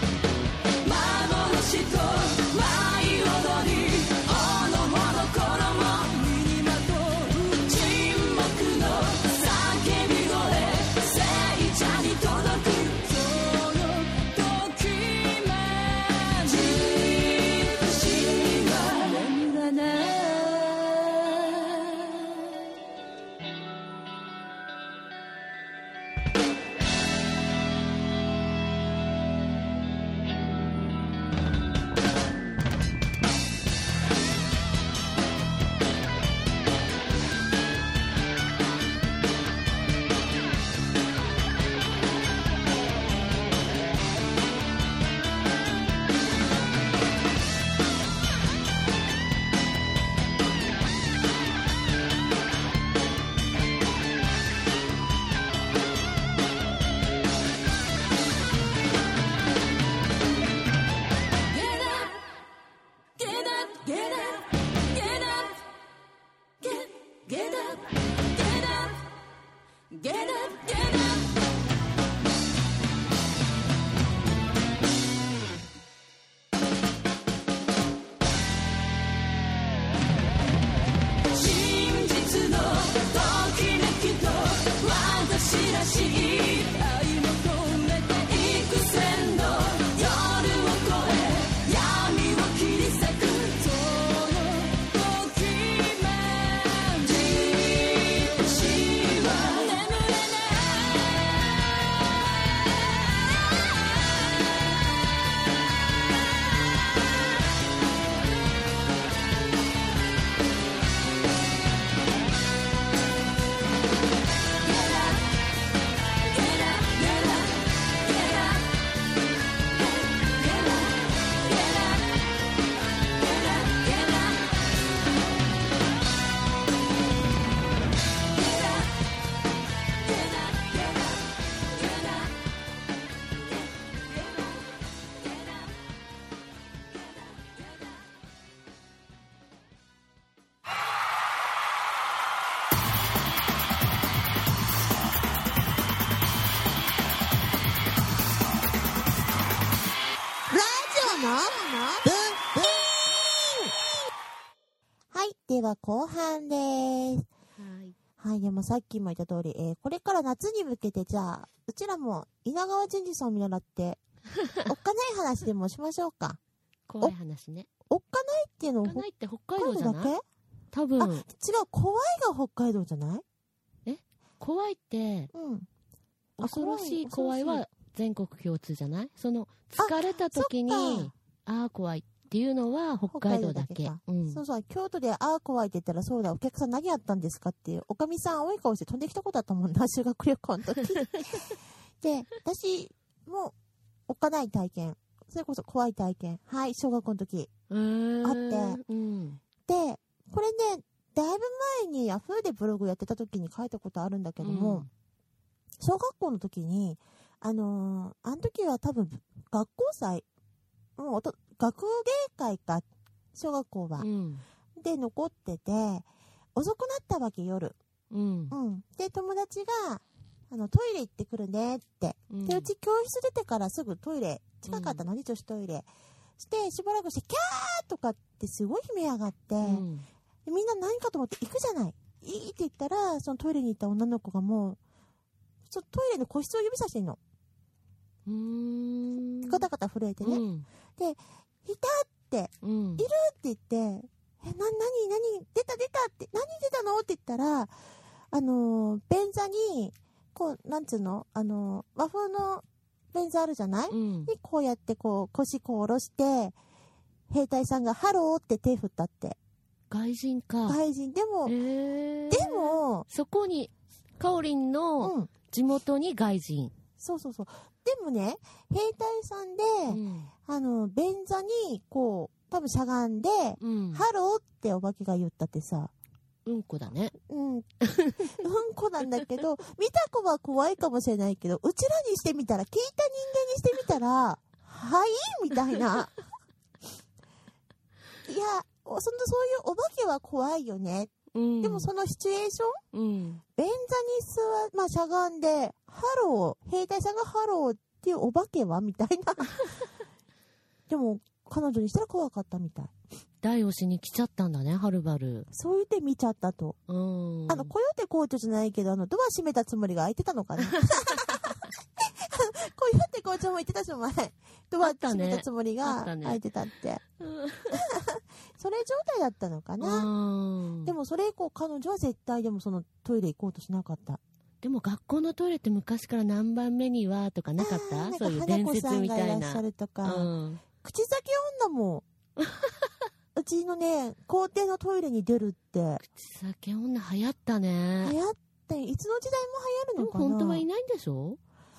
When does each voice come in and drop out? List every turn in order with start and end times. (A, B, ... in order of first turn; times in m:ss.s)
0:00.8-0:21.7 A
1:01.5-1:02.2 A
1:03.2-1:05.6 A
1:06.6-1:09.0 A
1:09.9-1:11.3 A
1:21.3-1:41.5 A
1:54.9-1:55.2 A
1:56.3-1:58.6 A
2:00.2-2:00.8 A
2:01.4-2:02.0 A
2:03.2-2:04.3 A
2:10.4-2:10.8 A
2:30.5-2:33.8 B
2:35.1-2:37.3 B
2:37.6-2:38.0 C
2:38.2-2:44.0 B
2:44.6-2:46.4 B
2:46.9-2:47.7 C
2:47.9-2:50.2 B
2:48.8-2:50.1 C
2:50.7-2:51.3 C
2:51.0-2:53.2 B
2:53.8-2:55.3 C
2:55.3-2:55.7 B
2:56.4-2:57.6 B
2:56.4-3:04.4 C
2:59.8-3:01.1 B
3:03.1-3:13.5 B
3:14.1-3:17.5 B
3:17.7-3:19.4 C
3:18.2-3:18.8 B
3:19.6-3:24.9 B
3:24.4-3:24.9 C
3:25.8-3:30.2 B
3:31.0-3:34.1 B
3:34.0-3:34.4 C
3:34.8-3:37.8 B
3:38.1-3:38.6 C
3:38.5-3:45.9 B
3:42.3-3:42.7 C
3:44.7-3:45.0 C
3:46.4-3:49.8 B
3:49.6-3:50.0 C
3:50.4-3:54.8 B
3:55.6-3:57.2 B
3:58.3-3:59.6 C
3:59.4-4:00.4 B
4:00.2-4:00.7 C
4:01.0-4:07.7 B
4:02.6-4:03.1 C
4:08.3-4:16.5 B
4:13.9-4:14.3 C
4:17.3-4:19.4 B
4:19.9-4:20.8 C
4:20.6-4:21.6 B
4:21.4-4:26.7 C
4:22.3-4:23.1 B
4:25.0-4:25.3 B
4:27.0-4:35.9 B
4:29.9-4:30.3 C
4:33.6-4:34.1 C
4:36.4-4:37.1 C
4:37.3-4:37.7 B
4:37.8-4:38.3 C
4:38.3-4:46.1 B
4:48.2-4:52.8 B
4:51.3-4:51.9 C
4:52.9-4:53.4 C
4:53.6-4:59.6 B
5:00.9-5:02.9 B
5:03.4-5:05.5 C
5:05.5-5:06.8 B
5:06.9-5:07.7 C
5:07.5-5:11.4 B
5:12.0-5:17.0 B
5:14.8-5:16.4 C
5:17.2-5:17.8 C
5:17.7-5:20.1 B
5:19.8-5:20.9 C
5:20.8-5:24.2 B
5:24.6-5:30.6 C
5:27.6-5:32.0 B
5:33.3-5:36.0 B
5:36.0-5:38.2 C
5:38.0-5:40.6 B
5:40.0-5:41.4 C